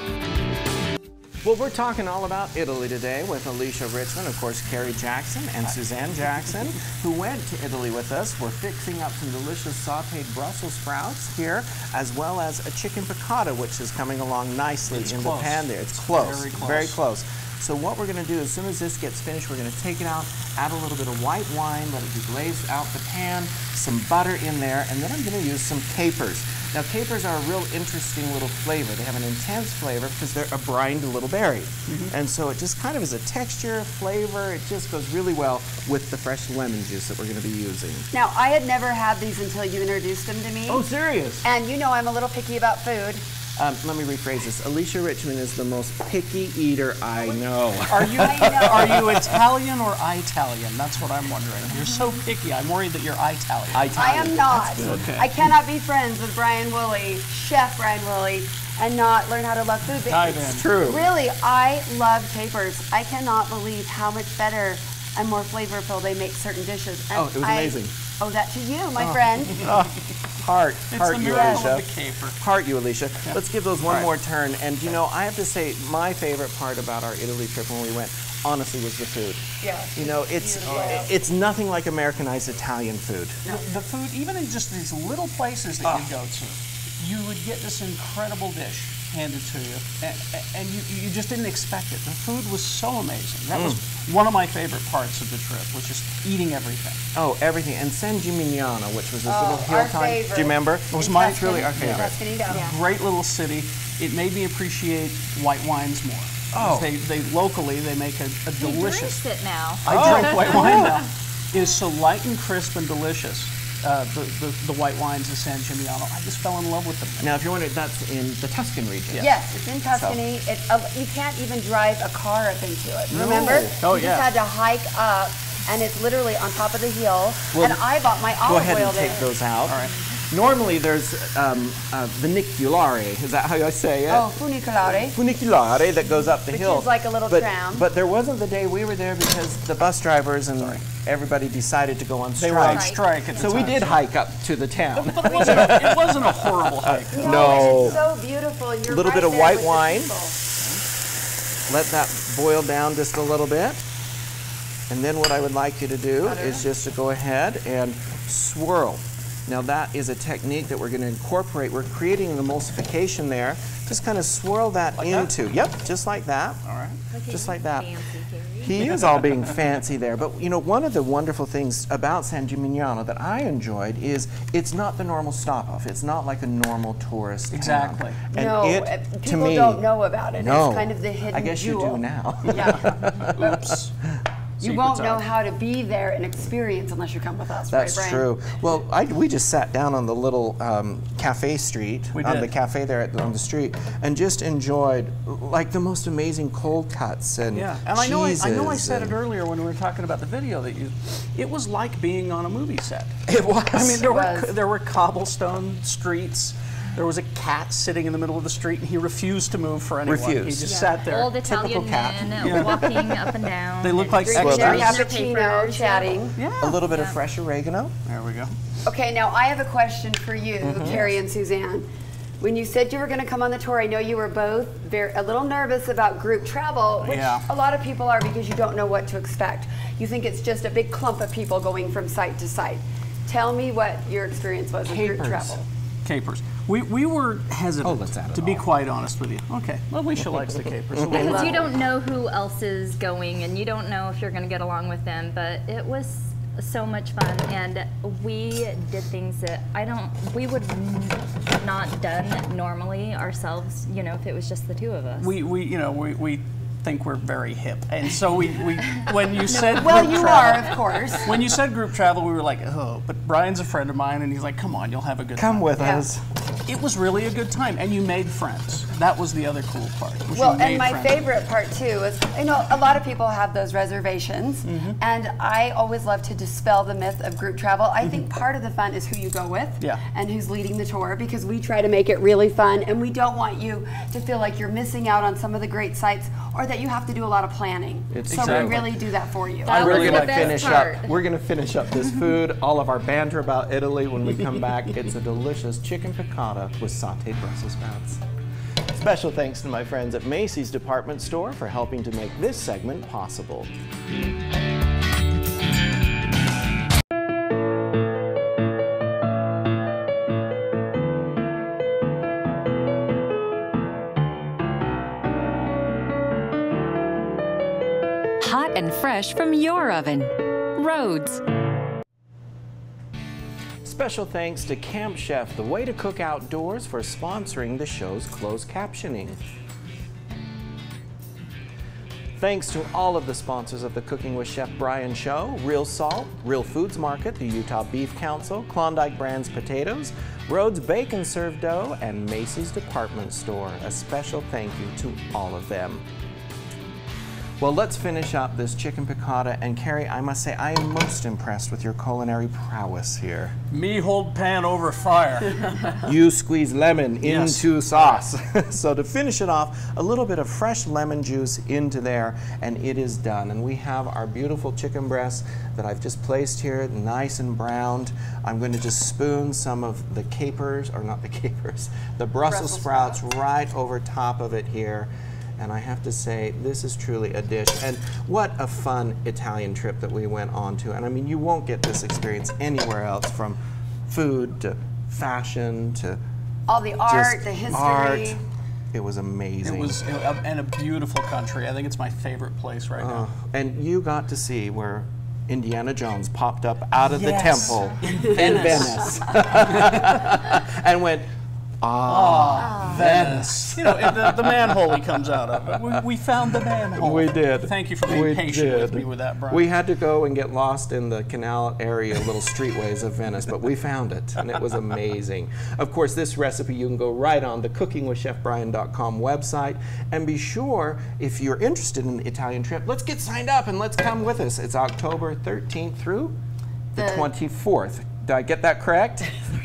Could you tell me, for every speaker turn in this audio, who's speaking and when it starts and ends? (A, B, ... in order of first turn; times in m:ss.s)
0:01.4-0:38.1 A
0:14.9-0:17.0 B
0:38.1-0:40.8 C
0:40.7-0:41.4 A
0:41.4-0:43.2 C
0:43.6-0:49.4 A
0:47.9-0:53.9 B
0:48.1-0:49.0 C
0:53.7-0:55.1 A
0:53.9-1:09.7 C
0:54.8-0:55.3 B
1:00.0-1:00.7 B
1:00.4-1:01.1 A
1:07.1-1:07.9 A
1:09.0-1:09.7 B
1:09.6-1:23.4 A
1:10.9-1:12.4 B
1:11.3-1:11.6 C
1:13.3-1:14.1 B
1:19.6-1:21.1 C
1:20.6-1:21.0 B
1:23.4-1:37.0 B
1:33.5-1:33.8 A
1:37.1-1:42.1 A
1:39.2-1:42.6 C
1:41.0-1:49.2 B
1:42.5-1:42.8 D
1:46.5-1:46.9 A
1:48.6-1:50.9 D
1:49.8-1:57.3 B
1:49.9-1:51.0 A
1:57.2-1:59.3 A
1:59.1-2:09.3 C
1:59.9-2:00.2 A
2:03.1-2:03.8 A
2:03.8-2:04.3 B
2:07.5-2:07.8 A
2:08.4-2:14.3 A
2:09.6-2:09.9 B
2:14.1-2:15.2 C
2:15.0-2:28.0 A
2:16.5-2:17.9 C
2:20.6-2:20.8 B
2:22.4-2:24.0 B
2:22.6-2:23.7 D
2:25.0-2:28.0 B
2:25.2-2:25.7 C
2:27.1-2:30.4 C
2:28.8-2:30.1 A
2:31.7-2:33.8 A
2:34.9-2:46.6 A
2:36.2-2:36.6 C
2:45.0-2:45.3 B
2:46.6-2:47.0 B
2:47.1-2:48.7 D
2:47.3-2:48.0 A
2:48.6-3:03.7 A
2:57.5-2:58.2 B
2:58.3-3:03.1 C
3:02.6-3:03.9 B
3:04.6-3:05.3 B
3:04.6-3:08.3 C
3:07.7-3:19.2 A
3:12.1-3:12.5 B
3:17.5-3:31.4 B
3:23.3-3:24.0 A
3:24.0-3:24.5 C
3:30.0-3:30.7 A
3:30.6-3:36.2 D
3:31.4-3:33.2 A
3:32.4-3:33.1 B
3:33.8-3:35.0 B
3:34.2-3:36.4 C
3:34.3-3:35.0 A
3:36.4-3:36.8 B
3:36.6-3:37.9 A
3:36.8-3:37.2 D
3:38.0-3:38.5 B
3:38.8-3:41.9 C
3:40.6-3:41.0 A
3:40.8-3:41.1 B
3:42.4-3:55.6 C
3:47.0-3:47.4 B
3:54.8-3:55.6 A
3:56.0-4:01.6 B
3:57.8-3:58.6 A
4:01.0-4:01.5 A
4:01.1-4:15.3 D
4:01.1-4:01.6 C
4:15.2-4:25.8 B
4:19.5-4:20.4 D
4:19.6-4:21.3 C
4:25.4-4:26.2 A
4:25.8-4:26.1 C
4:26.6-4:31.2 B
4:30.3-4:49.7 C
4:34.6-4:35.0 B
4:48.1-4:48.9 A
4:48.3-4:48.9 B
4:49.6-4:50.9 B
4:49.6-4:51.1 D
4:49.6-4:58.2 A
4:58.9-5:03.7 A
5:18.4-5:21.4 E
5:23.8-5:29.4 A
5:32.4-5:46.0 A
5:47.6-5:53.5 A
5:53.7-5:56.0 B
5:56.0-6:26.2 A
5:57.2-5:57.7 B
6:12.5-6:13.2 C
6:26.7-6:28.4 C
6:27.1-6:28.4 A
6:28.9-6:30.0 A
6:29.6-6:33.2 B
6:33.0-6:41.3 A
6:37.0-6:40.3 B
6:41.8-6:44.9 A
6:42.0-6:49.7 B
6:45.7-6:46.0 A
6:46.9-7:06.4 A
7:06.9-7:09.5 A
7:07.0-7:07.3 C